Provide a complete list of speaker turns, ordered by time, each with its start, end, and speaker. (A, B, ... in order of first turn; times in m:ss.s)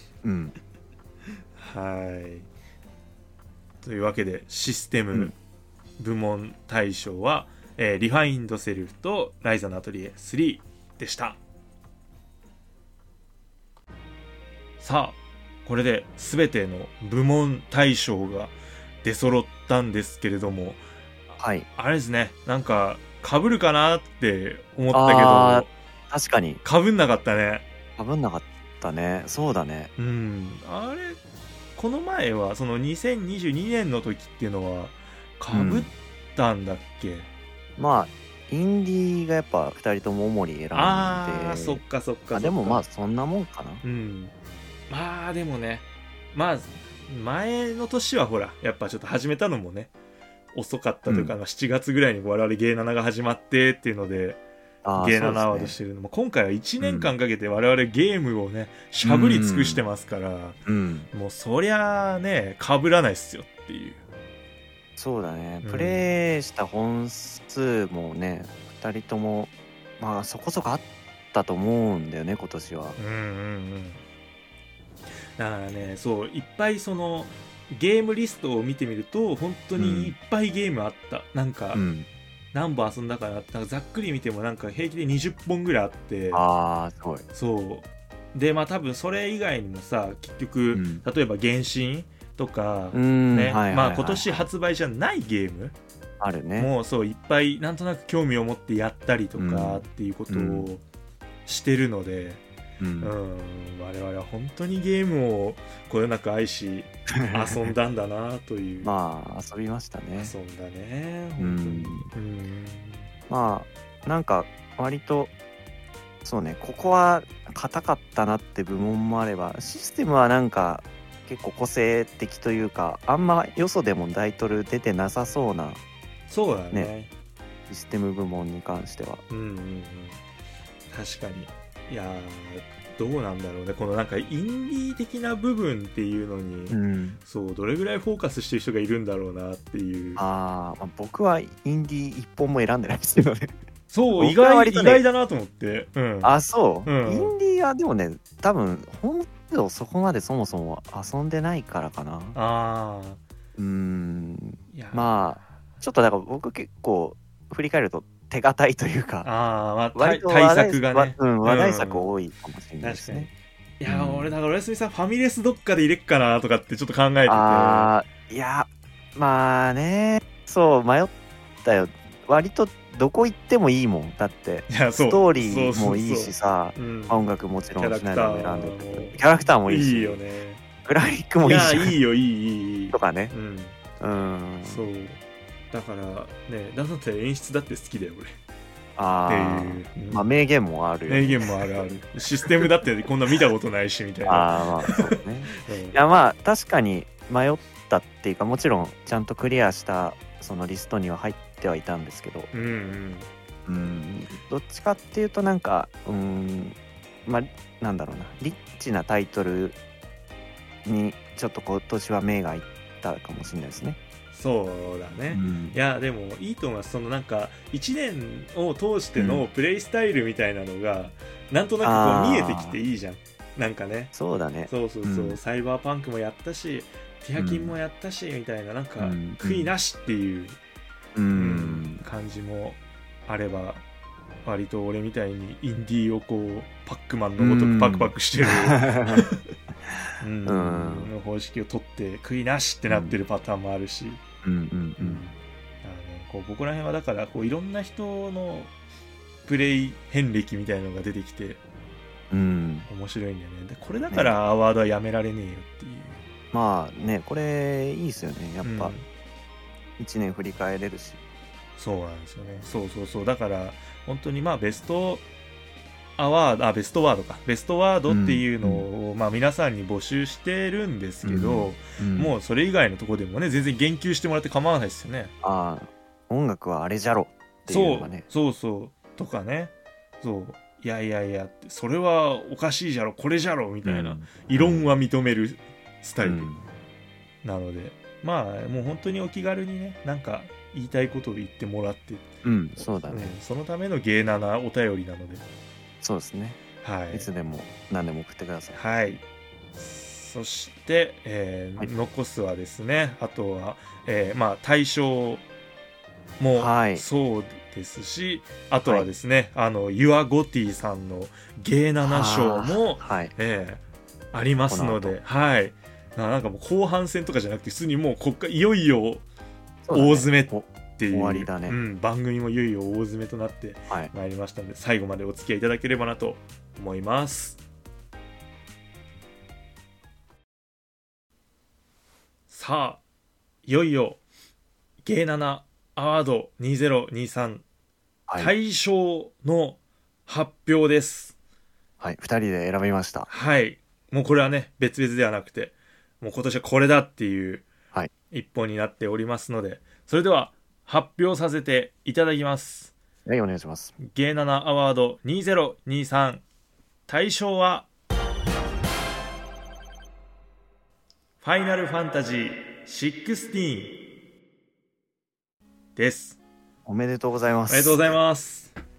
0:00.2-0:00.5 A
0:01.6-0:02.5 B
0:03.8-0:05.3 B
0:06.0-0:11.4 B
0:14.8-0:20.8 B
0:21.4-0:21.7 A
0:21.7-0:25.7 B
0:24.9-0:26.6 A
0:26.6-0:27.7 B
0:28.0-0:29.9 A
0:30.0-0:31.2 B
0:31.8-0:37.3 B
0:35.5-0:35.9 A
0:37.8-0:43.8 A
0:40.7-0:42.8 B
0:43.8-0:44.3 B
0:44.9-0:49.9 B
0:50.5-0:54.4 B
0:51.0-0:51.3 A
0:54.8-0:55.8 A
0:55.0-1:00.6 B
0:56.8-0:57.1 A
0:59.0-0:59.8 A
1:00.6-1:01.1 A
1:01.1-1:04.0 B
1:05.0-1:13.0 A
1:05.6-1:06.1 B
1:13.0-1:14.0 B
1:15.4-1:21.8 B
1:19.8-1:20.1 A
1:21.7-1:22.1 A
1:22.5-1:26.4 B
1:26.3-1:27.2 A
1:27.3-1:35.7 B
1:30.7-1:31.0 A
1:32.9-1:34.5 A
1:36.2-1:36.7 A
1:36.6-1:40.8 B
1:39.4-1:40.7 A
1:41.4-1:42.4 B
1:42.8-1:43.1 A
1:43.0-1:48.9 B
1:47.1-1:47.7 A
1:48.8-1:50.3 A
1:50.2-1:53.1 B
1:51.4-1:52.1 A
1:53.3-1:55.3 A
1:56.2-2:05.8 A
2:06.3-2:07.1 B
2:07.7-2:09.2 A
2:09.3-2:10.2 B
2:10.9-2:20.2 B
2:16.7-2:17.2 A
2:20.2-2:23.5 A
2:23.9-2:27.3 B
2:24.2-2:25.0 A
2:26.2-2:32.4 A
2:32.3-2:33.2 B
2:33.6-2:39.3 A
2:34.7-2:35.1 B
2:39.2-2:42.1 B
2:39.9-2:43.3 A
2:42.8-2:47.9 B
2:43.8-2:44.3 A
2:47.2-3:00.2 A
2:54.7-2:57.2 B
2:57.8-3:00.6 B
3:00.8-3:01.9 A
3:01.4-3:03.8 B
3:02.9-3:03.3 A
3:04.0-3:04.8 A
3:04.6-3:05.2 B
3:05.7-3:08.4 B
3:09.0-3:11.8 A
3:09.3-3:10.2 B
3:11.1-3:16.0 B
3:14.2-3:22.5 A
3:22.5-3:23.3 B
3:23.6-3:29.8 A
3:30.8-3:34.0 A
3:34.3-3:44.1 B
3:35.3-3:35.8 A
3:39.2-3:39.4 A
3:41.8-3:42.8 A
3:44.1-3:45.4 A
3:44.7-3:50.6 B
3:47.4-3:47.7 A
3:49.0-3:49.7 A
3:51.1-3:52.0 A
3:51.3-3:53.8 B
3:54.4-3:59.4 B
3:57.4-3:59.2 A
4:00.2-4:04.2 B
4:00.4-4:01.1 A
4:02.9-4:03.2 A
4:04.4-4:05.2 A
4:05.0-4:08.7 B
4:09.4-4:11.6 B
4:12.3-4:12.9 A
4:12.9-4:16.2 B
4:14.1-4:14.4 A
4:16.5-4:18.9 A
4:18.6-4:19.0 B
4:20.0-4:21.2 A
4:21.8-4:25.2 B
4:26.2-4:35.3 B
4:28.1-4:28.8 A
4:31.2-4:32.3 A
4:35.4-4:38.2 A
4:37.7-4:46.5 B
4:43.8-4:44.9 A
4:46.2-4:46.7 A
4:47.4-4:55.4 B
4:52.4-4:53.4 A
4:56.0-4:58.8 A
4:56.8-4:57.3 B
4:58.7-5:05.4 B
5:06.4-5:13.8 B
5:06.6-5:07.0 A
5:12.0-5:13.3 A
5:14.3-5:19.2 B
5:14.7-5:15.2 A
5:19.8-5:21.8 A
5:19.9-5:27.6 B
5:32.5-5:33.0 B
5:33.6-5:34.2 B
5:35.0-5:37.6 B
5:38.4-5:41.3 B
5:42.0-5:43.3 A
5:43.3-5:47.6 B
5:48.3-5:52.9 B
5:53.2-5:54.0 A
5:54.0-5:56.4 B
5:57.1-5:57.9 B
6:01.4-6:04.0 B
6:06.0-6:06.4 B
6:06.8-6:08.2 A
6:07.7-6:08.7 B